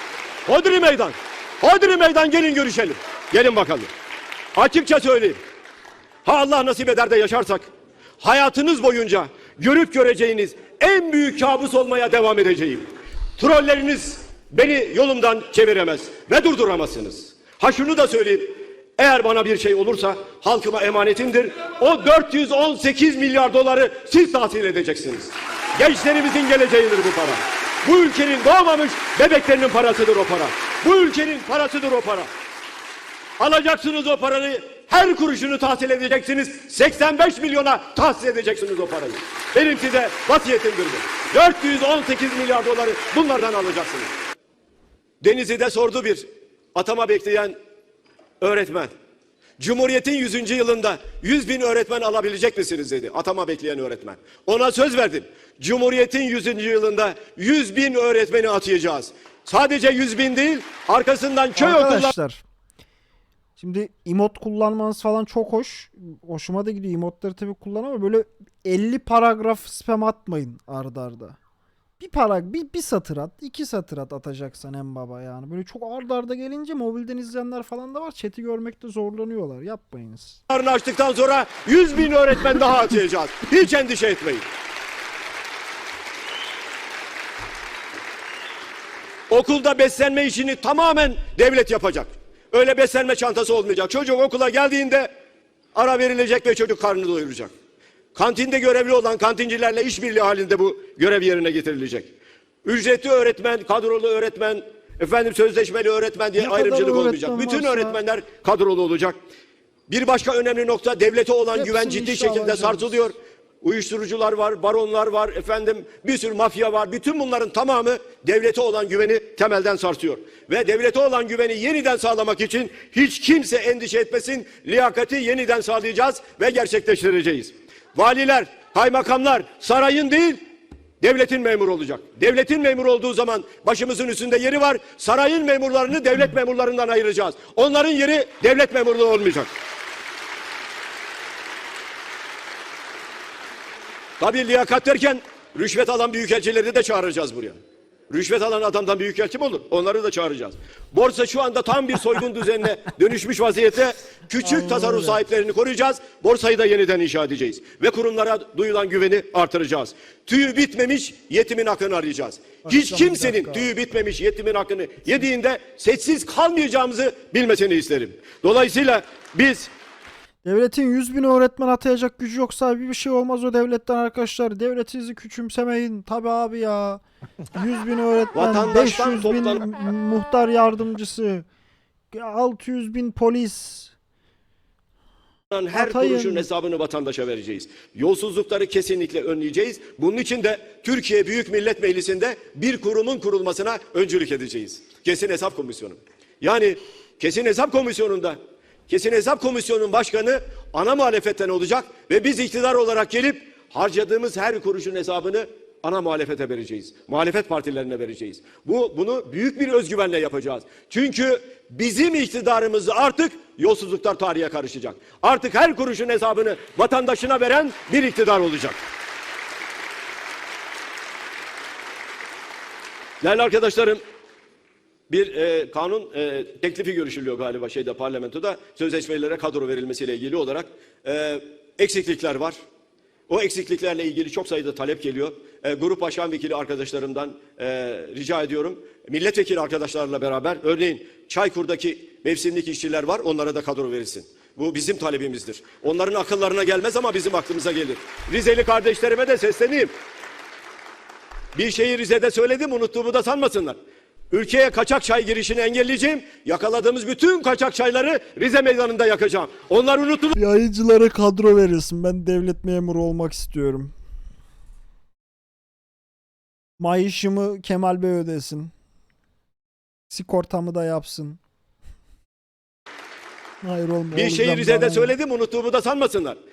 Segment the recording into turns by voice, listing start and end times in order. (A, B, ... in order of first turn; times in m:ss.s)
0:00.5-0:03.9 A
0:04.6-0:05.4 A
0:06.2-0:07.7 A
0:08.2-0:32.3 A
0:33.4-0:44.1 A
0:45.2-0:47.6 A
0:48.4-0:48.9 A
0:49.6-1:02.1 A
1:01.6-1:02.4 B
1:03.6-1:11.4 B
1:12.0-1:20.4 B
1:20.5-1:24.4 A
1:29.3-1:35.1 A
1:35.7-1:37.5 A
1:38.2-1:42.1 A
1:42.6-1:49.2 A
1:46.4-1:48.0 B
1:49.9-2:10.4 A
1:51.5-1:53.1 B
2:11.0-2:19.5 A
2:24.2-2:27.6 A
2:28.1-2:49.7 A
2:34.4-2:35.2 B
2:42.7-2:43.7 B
2:50.4-2:57.0 B
2:57.6-3:01.4 B
2:58.3-2:59.7 A
3:02.1-3:03.9 B
3:05.5-3:18.4 A
3:05.7-3:06.5 B
3:18.9-3:38.8 A
3:43.2-3:44.0 A
3:45.1-3:52.6 A
3:53.3-4:09.9 A
4:11.6-4:13.8 A
4:14.3-4:20.4 A
4:20.4-4:23.9 B
4:26.8-4:28.7 B
4:30.1-4:31.4 B
4:33.6-4:35.2 B
4:34.1-4:36.4 A